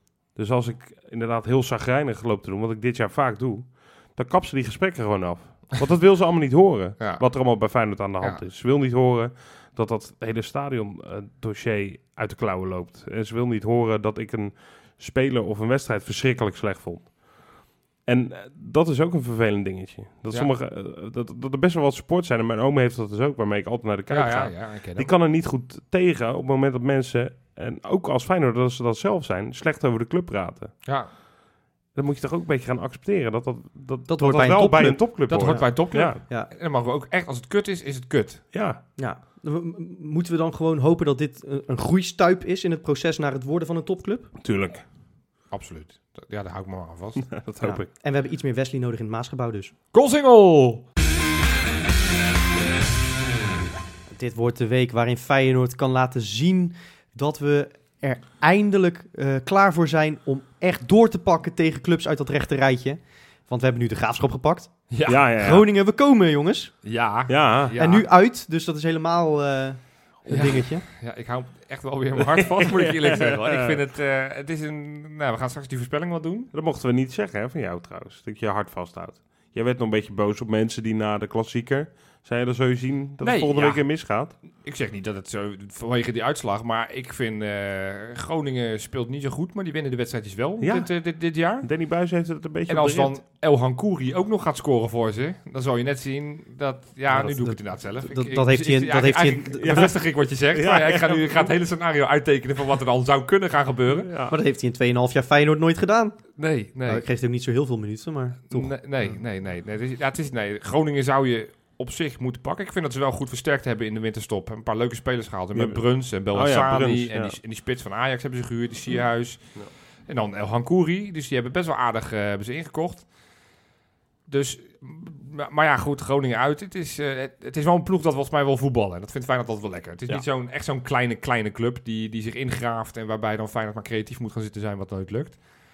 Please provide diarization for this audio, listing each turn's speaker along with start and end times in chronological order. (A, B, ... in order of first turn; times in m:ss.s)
0:00.3-0:17.1 A
0:07.0-0:07.2 B
0:18.0-0:30.7 A
0:24.1-0:25.1 B
0:31.9-0:36.2 A
0:34.1-0:36.5 C
0:35.3-0:38.4 B
0:38.5-0:38.8 A
0:39.0-0:44.3 C
0:44.4-0:44.8 A
0:45.5-0:47.3 B
0:47.2-0:47.9 A
0:47.6-0:49.7 C
0:49.9-0:50.8 B
0:54.1-1:04.8 C
1:04.9-1:05.2 B
1:05.0-1:05.6 A
1:05.4-1:06.7 C
1:06.8-1:08.0 B
1:07.3-1:07.8 A
1:07.8-1:10.8 C
1:10.3-1:16.5 B
1:12.2-1:13.8 A
1:16.5-1:24.3 A
1:23.2-1:31.7 B
1:30.6-1:30.9 A
1:31.6-1:33.2 A
1:32.7-1:44.1 B
1:37.1-1:39.9 C
1:39.6-1:41.5 A
1:43.9-1:44.4 A
1:44.3-1:46.2 C
1:46.4-1:47.0 B
1:46.8-1:48.7 C
1:48.5-2:03.1 B
1:55.5-1:57.4 A
2:04.3-2:15.4 B